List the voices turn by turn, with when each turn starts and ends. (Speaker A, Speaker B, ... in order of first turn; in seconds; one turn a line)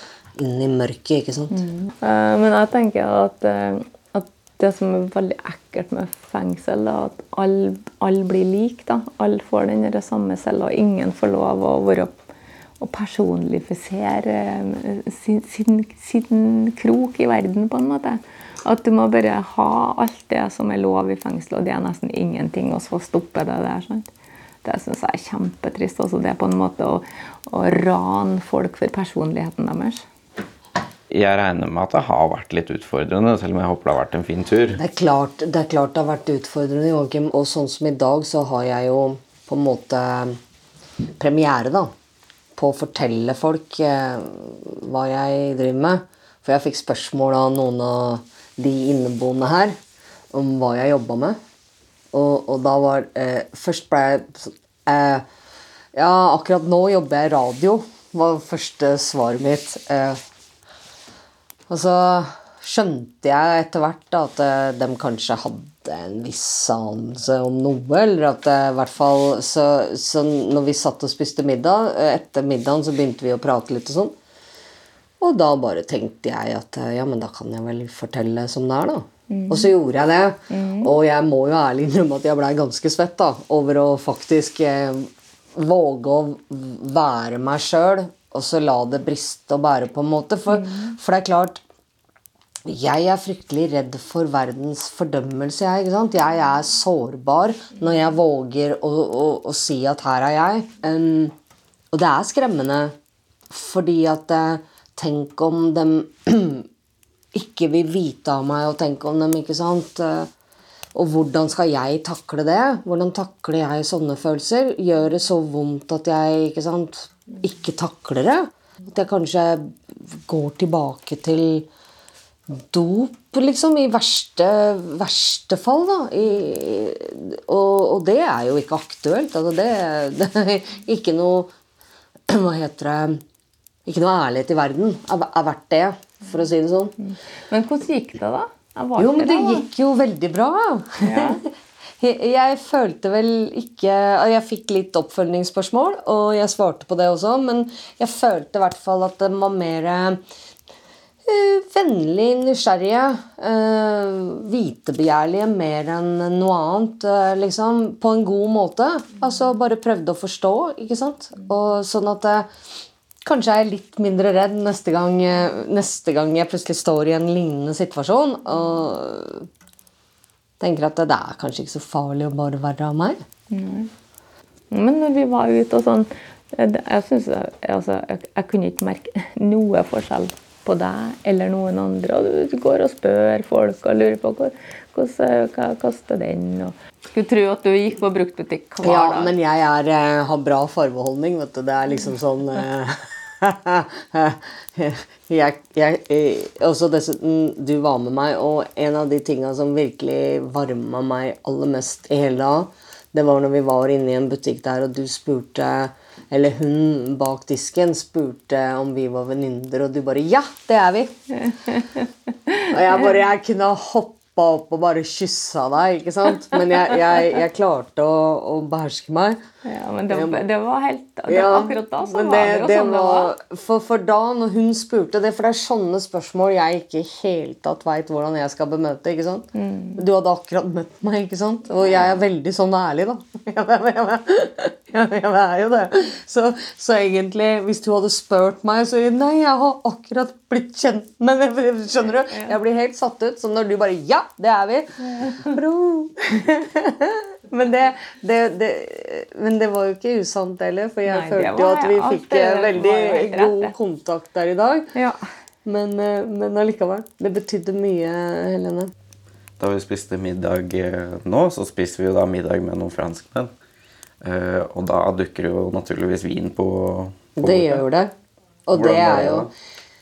Speaker A: 0.4-1.6
Speaker B: 1.5-12.2
Speaker B: 12.8-24.1
Speaker B: 24.6-30.0
Speaker C: 31.1-34.8
Speaker A: 34.7-40.4
Speaker A: 41.2-41.9
Speaker A: 42.5-49.8
Speaker A: 50.3-51.4
Speaker A: 52.1-55.2
Speaker A: 55.9-60.2
Speaker A: 61.7-74.1
Speaker A: 75.2-91.6
Speaker B: 79.3-79.7
Speaker B: 80.5-80.9
Speaker B: 90.5-90.9
Speaker A: 92.6-101.3
Speaker A: 101.9-102.9
Speaker A: 103.5-106.7
Speaker A: 107.3-110.3
Speaker A: 110.9-121.7
Speaker A: 122.5-131.5
Speaker A: 132.3-133.2
Speaker A: 133.8-136.9
Speaker B: 137.1-139.6
Speaker A: 139.0-141.5
Speaker B: 141.0-141.4
Speaker A: 142.0-150.2
Speaker A: 151.2-162.5
Speaker A: 163.2-169.5
Speaker A: 170.6-173.2
Speaker B: 173.5-173.9
Speaker B: 174.7-189.3
Speaker A: 188.8-211.1
Speaker B: 211.4-212.7
Speaker A: 212.7-219.4
Speaker B: 219.6-223.3
Speaker A: 220.1-220.4
Speaker A: 221.3-254.9
Speaker B: 229.5-230.0
Speaker B: 245.2-245.5
Speaker B: 251.1-253.7
Speaker B: 254.9-255.2
Speaker A: 255.6-258.9
Speaker C: 259.6-263.5
Speaker C: 264.2-267.8
Speaker A: 267.4-268.1
Speaker A: 268.7-269.5
Speaker C: 268.7-269.5